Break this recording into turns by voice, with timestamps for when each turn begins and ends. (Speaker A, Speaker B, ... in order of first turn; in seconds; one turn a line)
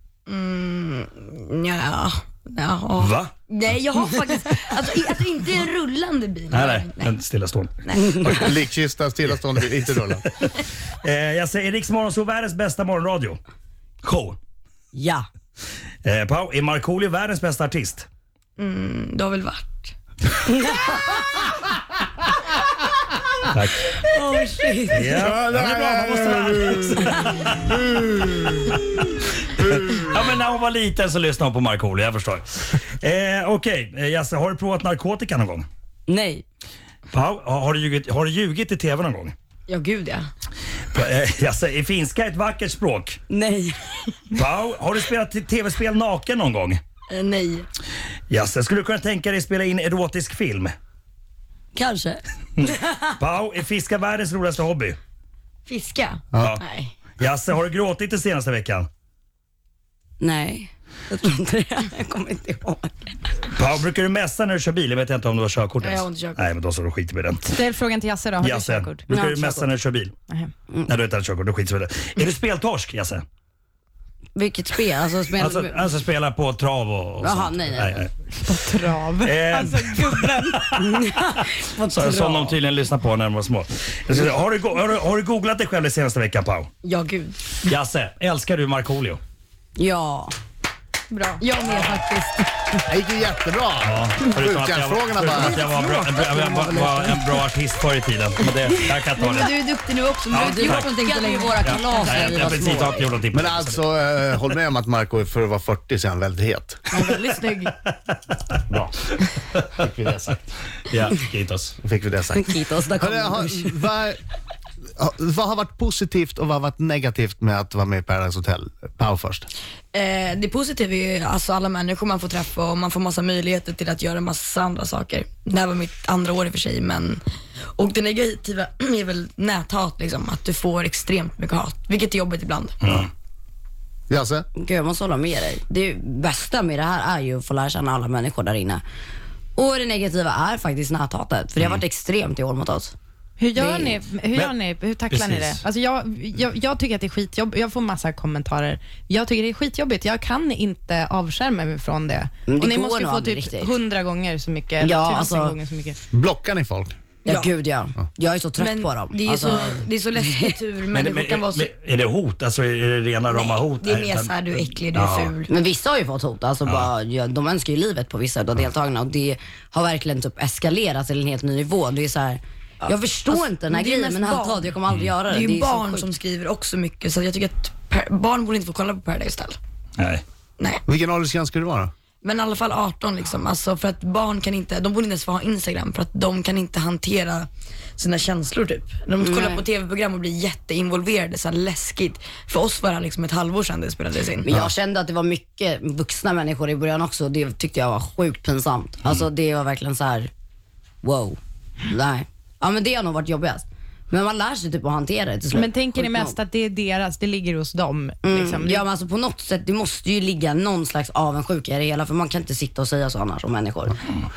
Speaker A: 0.3-7.1
Speaker B: 3.0-3.3
Speaker B: 6.5-8.5
Speaker A: 7.8-8.2
Speaker C: 8.2-10.2
Speaker B: 10.4-13.4
Speaker B: 14.0-14.4
Speaker D: 14.9-15.2
Speaker B: 16.0-18.1
Speaker A: 18.6-19.9
Speaker B: 23.5-24.0
Speaker D: 24.1-25.2
Speaker B: 24.9-27.8
Speaker C: 25.1-28.7
Speaker B: 29.4-35.7
Speaker C: 29.6-30.1
Speaker D: 36.1-36.4
Speaker B: 37.1-39.3
Speaker A: 39.7-40.2
Speaker D: 39.7-40.0
Speaker B: 40.9-43.2
Speaker D: 43.3-44.1
Speaker B: 44.3-46.8
Speaker A: 47.1-47.7
Speaker B: 48.3-50.7
Speaker D: 51.7-53.1
Speaker B: 52.6-55.0
Speaker A: 55.6-56.8
Speaker B: 57.2-58.9
Speaker D: 60.2-63.1
Speaker B: 63.5-67.4
Speaker A: 65.8-66.5
Speaker E: 67.4-69.5
Speaker B: 68.4-70.1
Speaker D: 69.1-69.7
Speaker B: 70.8-73.2
Speaker D: 74.3-75.8
Speaker B: 75.3-78.1
Speaker D: 77.2-78.0
Speaker E: 78.3-80.8
Speaker B: 79.2-86.7
Speaker D: 80.8-82.6
Speaker D: 86.8-87.6
Speaker B: 87.6-89.2
Speaker D: 89.8-90.3
Speaker E: 91.1-91.5
Speaker D: 91.4-92.4
Speaker A: 91.6-91.9
Speaker C: 92.9-97.2
Speaker B: 93.8-99.5
Speaker A: 98.5-102.9
Speaker B: 100.3-100.9
Speaker D: 100.4-103.0
Speaker B: 101.6-103.8
Speaker C: 102.2-102.5
Speaker C: 103.3-106.9
Speaker A: 106.9-107.7
Speaker C: 109.7-110.4
Speaker B: 110.9-111.7
Speaker C: 111.8-114.2
Speaker D: 112.4-113.8
Speaker C: 115.0-119.5
Speaker A: 119.9-127.2
Speaker A: 127.8-133.0
Speaker B: 132.8-133.1
Speaker C: 134.1-134.4
Speaker D: 134.6-138.8
Speaker D: 139.6-142.9
Speaker E: 143.4-156.0
Speaker D: 143.6-144.0
Speaker B: 145.1-145.6
Speaker D: 152.4-153.7
Speaker D: 154.8-155.6
Speaker C: 156.1-156.9
Speaker A: 157.2-157.5
Speaker D: 157.2-159.8
Speaker A: 158.6-161.7
Speaker B: 160.9-165.3
Speaker A: 163.3-165.5
Speaker D: 165.5-176.1
Speaker A: 173.2-179.6
Speaker B: 180.0-180.2
Speaker C: 180.9-181.9
Speaker A: 182.2-194.5
Speaker D: 189.2-189.7
Speaker D: 194.4-200.3
Speaker D: 201.0-206.4
Speaker E: 205.5-208.8
Speaker D: 208.2-214.0